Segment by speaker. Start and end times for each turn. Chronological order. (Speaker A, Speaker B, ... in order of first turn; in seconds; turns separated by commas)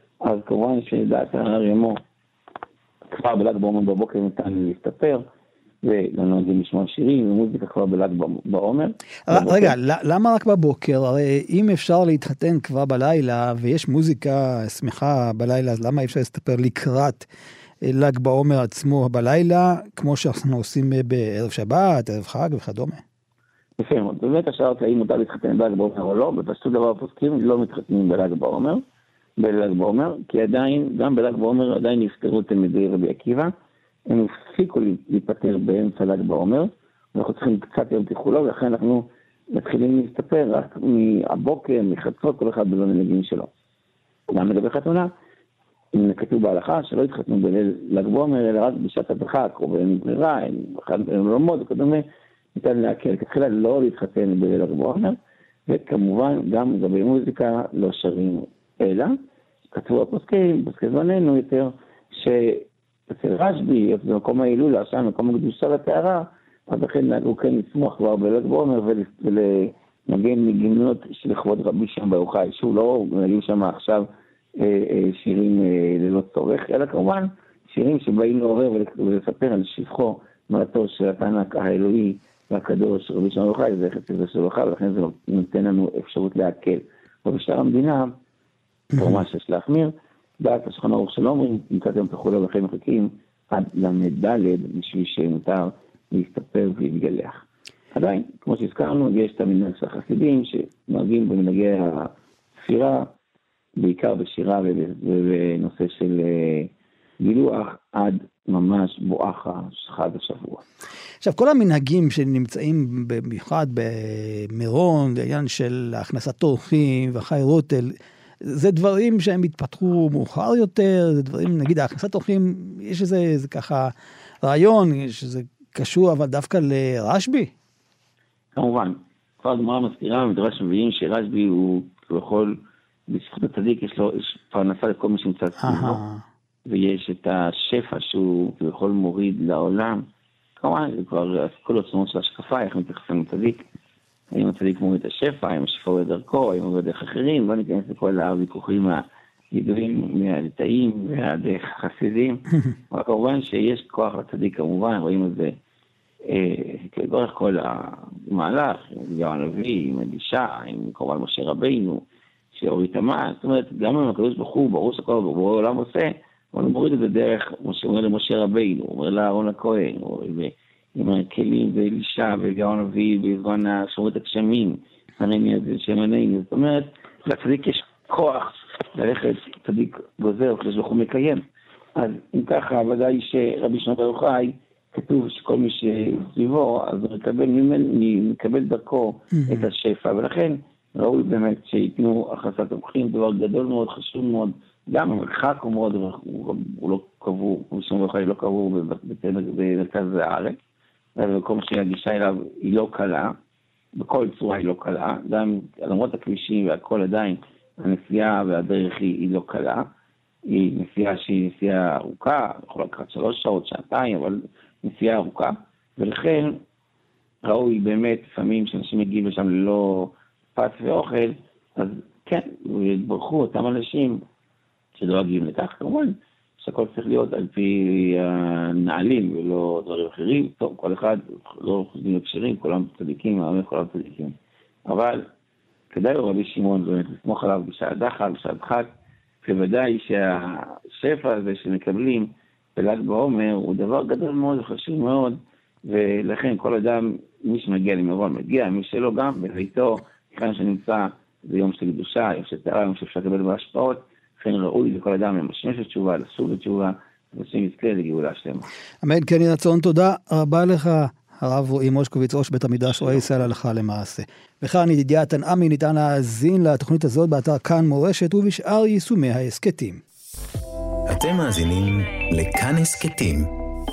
Speaker A: 0.2-2.0, Speaker A: 3.1-5.2, Speaker A: 5.8-9.7, Speaker B: 9.3-17.3, Speaker B: 17.8-23.0, Speaker A: 23.8-28.8, Speaker A: 29.4-33.5, Speaker A: 34.1-43.5, Speaker A: 44.3-45.1, Speaker A: 45.9-52.0, Speaker A: 52.5-55.2, Speaker A: 55.7-59.1, Speaker A: 59.7-74.0, Speaker A: 74.6-88.1, Speaker A: 88.9-103.1, Speaker A: 103.8-110.6, Speaker B: 111.2-127.5, Speaker A: 128.5-136.0, Speaker B: 135.6-136.2, Speaker A: 136.7-140.1, Speaker A: 140.6-143.6, Speaker A: 144.3-155.6, Speaker A: 156.2-181.4, Speaker A: 181.9-200.6, Speaker B: 189.4-189.6, Speaker A: 201.2-203.3, Speaker A: 203.9-209.9, Speaker A: 210.4-216.6, Speaker A: 217.4-224.2, Speaker A: 224.9-234.3, Speaker A: 234.9-235.3, Speaker A: 235.9-238.9, Speaker A: 239.4-258.7, Speaker B: 259.0-270.0, Speaker C: 271.1-273.5